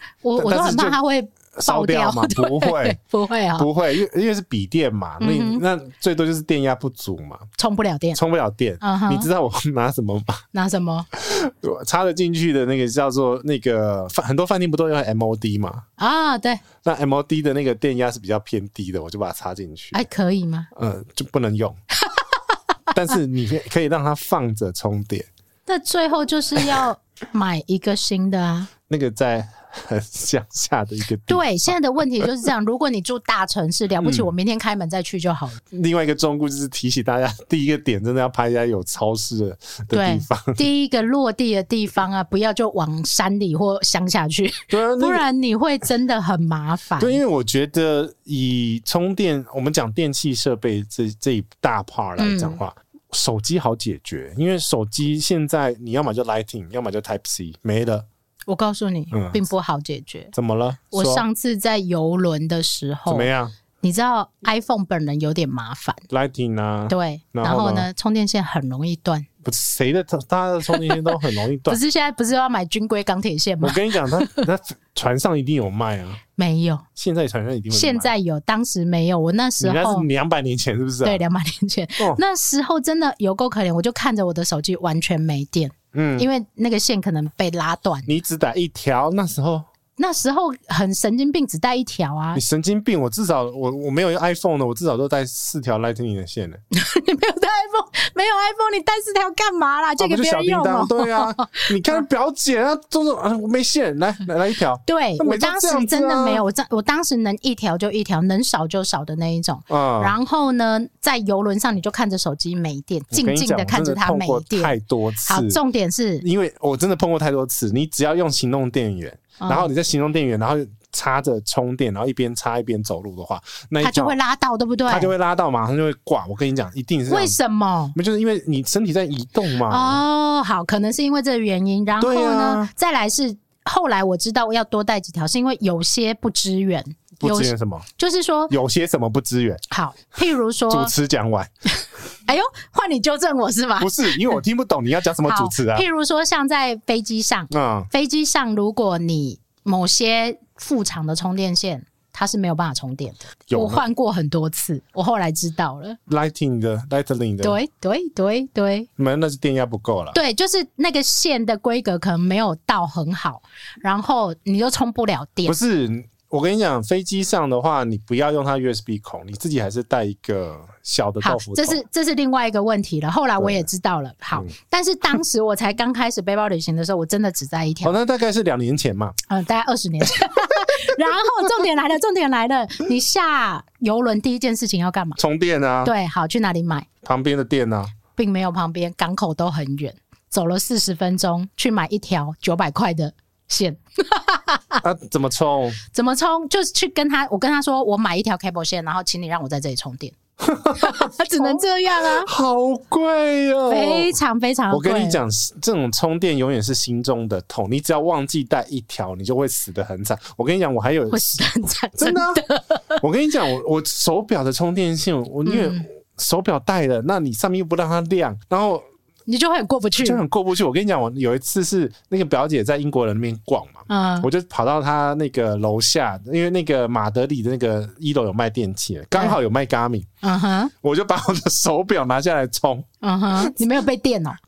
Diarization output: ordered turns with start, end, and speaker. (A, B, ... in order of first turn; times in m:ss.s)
0:00.2-0:03.7 A
0:00.4-0:01.0 B
0:01.6-0:03.0 B
0:03.6-0:07.5 B
0:05.2-0:05.6 A
0:07.6-0:08.2 A
0:08.2-0:10.4 B
0:08.8-0:09.3 A
0:10.5-0:11.1 A
0:11.1-0:15.9 B
0:16.0-0:16.6 A
0:16.8-0:20.0 B
0:19.9-0:20.7 A
0:20.7-0:21.8 B
0:22.9-0:25.3 B
0:25.7-0:28.7 A
0:26.6-0:26.8 B
0:28.9-0:32.3 B
0:31.3-0:35.6 A
0:34.0-0:34.3 B
0:35.7-0:40.6 B
0:39.9-0:47.2 A
0:44.7-0:45.2 B
0:47.0-0:58.1 B
0:52.2-0:52.6 A
0:58.5-1:00.3 A
0:59.1-0:59.4 B
1:00.3-1:01.2 B
1:00.9-1:03.3 A
1:03.1-1:03.5 B
1:03.8-1:06.0 A
1:06.1-1:07.9 B
1:06.9-1:09.3 A
1:09.4-1:11.8 B
1:10.8-1:11.2 A
1:11.7-1:14.5 A
1:13.6-1:16.2 B
1:16.4-1:16.8 A
1:17.0-1:18.1 B
1:17.7-1:20.1 A
1:19.6-1:21.2 B
1:21.0-1:28.1 A
1:25.9-1:26.3 B
1:28.1-1:29.7 B
1:30.0-1:32.4 A
1:32.4-1:36.6 B
1:36.7-1:42.0 A
1:40.0-1:46.4 B
1:44.9-1:54.7 A
1:49.7-1:50.2 B
1:53.1-1:55.6 B
1:55.3-1:56.2 A
1:56.2-2:04.2 B
1:59.4-1:59.7 A
2:03.8-2:05.1 A
2:04.9-2:07.4 B
2:07.1-2:08.0 A
2:08.0-2:10.0 B
2:09.7-2:18.5 A
2:12.0-2:12.7 B
2:17.2-2:17.9 B
2:18.5-2:19.6 B
2:19.7-2:20.9 A
2:20.7-2:21.5 B
2:22.3-2:24.4 A
2:23.8-2:25.8 B
2:25.3-2:36.0 A
2:27.5-2:27.9 B
2:33.5-2:33.8 B
2:36.1-2:37.6 B
2:37.4-2:38.9 A
2:39.0-2:40.2 B
2:40.1-2:45.6 A
2:45.5-2:51.8 B
2:51.2-2:57.9 A
2:53.4-2:53.7 B
2:57.8-2:59.2 B
2:59.3-3:05.2 A
3:05.2-3:05.9 B
3:05.8-3:06.9 A
3:07.0-3:07.9 B
3:08.1-3:14.8 A
3:14.8-3:15.8 B
3:15.9-3:20.1 A
3:20.4-3:24.2 B
3:20.8-3:22.3 A
3:23.7-3:25.2 A
3:24.7-3:32.4 B
3:31.1-3:33.0 A
3:33.0-3:38.9 B
3:35.5-3:35.9 A
3:39.3-3:40.2 A
3:40.0-3:50.1 B
3:43.9-3:44.3 A
3:50.2-3:50.7 A
3:50.8-3:53.6 B
3:53.0-3:54.4 A